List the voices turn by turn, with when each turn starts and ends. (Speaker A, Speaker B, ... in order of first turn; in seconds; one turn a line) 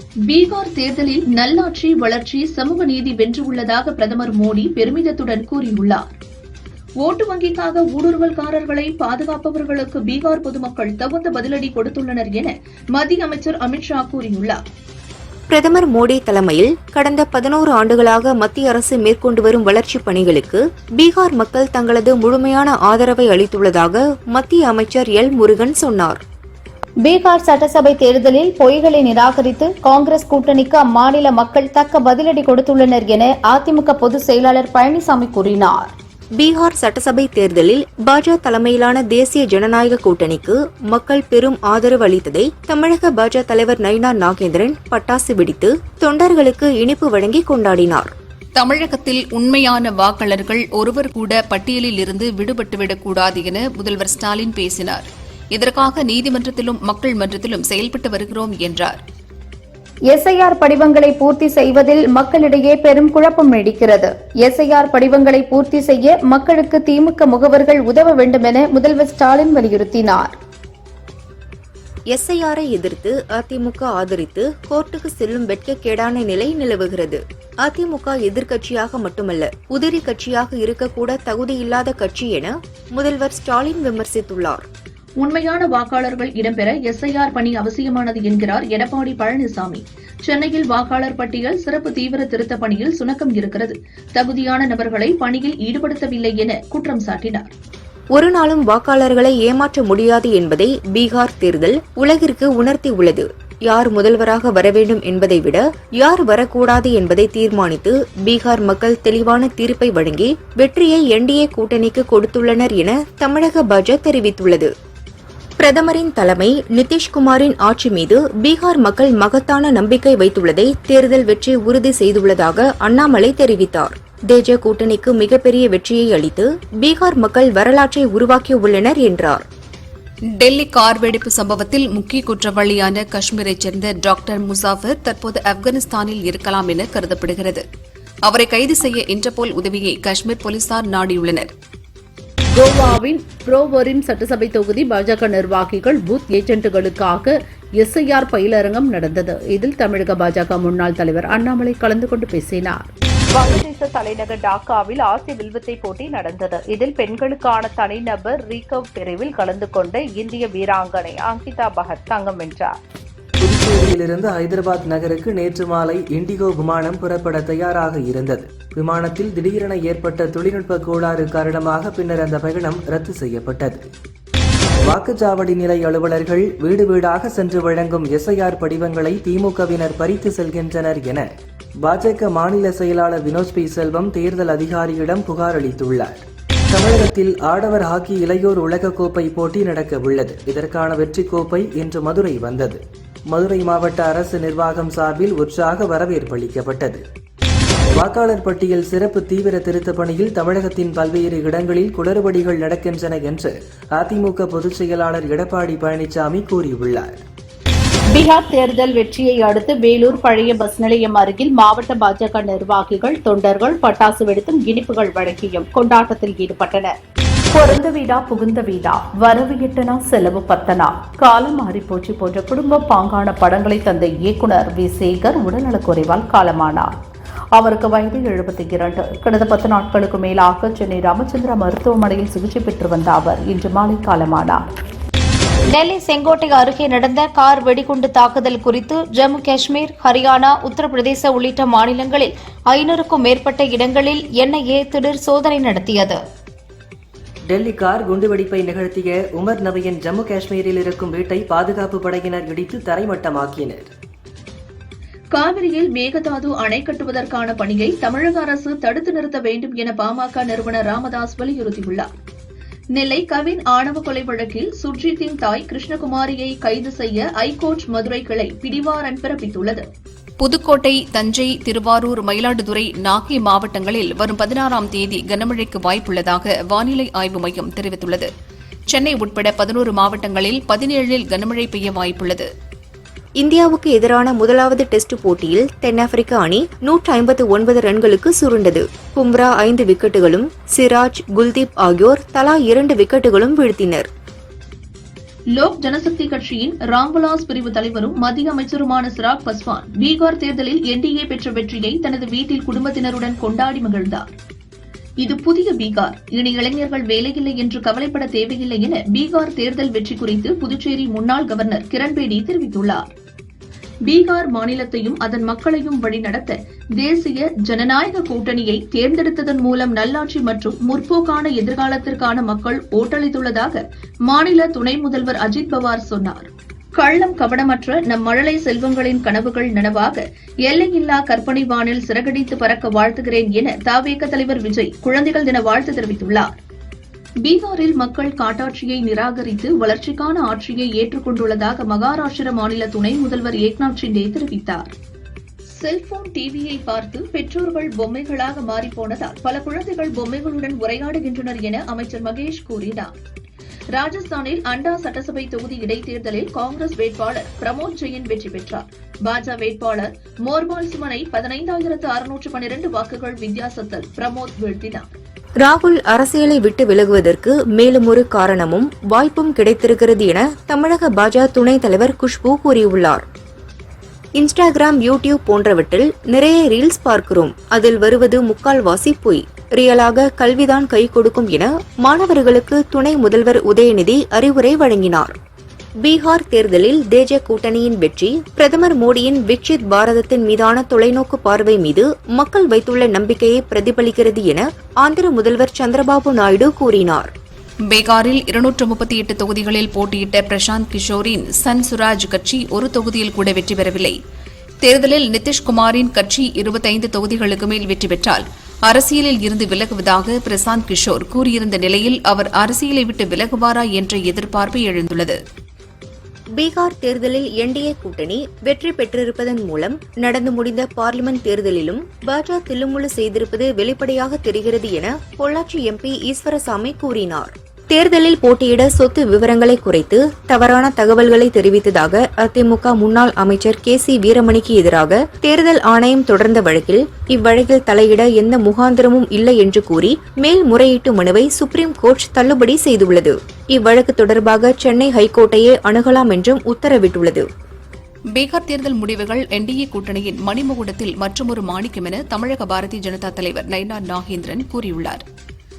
Speaker A: 0.3-6.2
Speaker A: 7.0-14.6
Speaker B: 15.5-26.2
Speaker C: 27.0-35.9
Speaker B: 36.4-48.1
Speaker D: 48.6-59.0
Speaker C: 60.1-70.4
Speaker B: 72.1-84.7
Speaker A: 85.2-97.5
Speaker B: 98.1-114.7
Speaker B: 115.6-129.4
Speaker D: 130.3-137.6
Speaker D: 138.2-141.5
Speaker E: 142.6-162.8
Speaker F: 163.4-173.9
Speaker F: 174.9-181.3
Speaker F: 181.8-197.0
Speaker F: 197.9-207.2
Speaker E: 208.1-216.9
Speaker E: 217.5-226.9
Speaker E: 227.6-234.6
Speaker C: 235.7-246.2
Speaker F: 247.5-253.9
Speaker A: 255.3-262.1
Speaker A: 262.9-269.9
Speaker D: 270.4-278.3
Speaker D: 278.9-282.5
Speaker B: 283.4-294.1
Speaker A: 295.6-304.3
Speaker A: 305.2-313.1
Speaker A: 314.1-336.6
Speaker A: 337.4-344.9
Speaker A: 345.7-353.1
Speaker A: 353.9-365.1
Speaker B: 365.6-373.2
Speaker B: 374.4-385.3
Speaker B: 386.0-397.3
Speaker D: 397.9-404.2
Speaker D: 404.8-415.4
Speaker B: 416.6-447.5
Speaker D: 448.3-455.2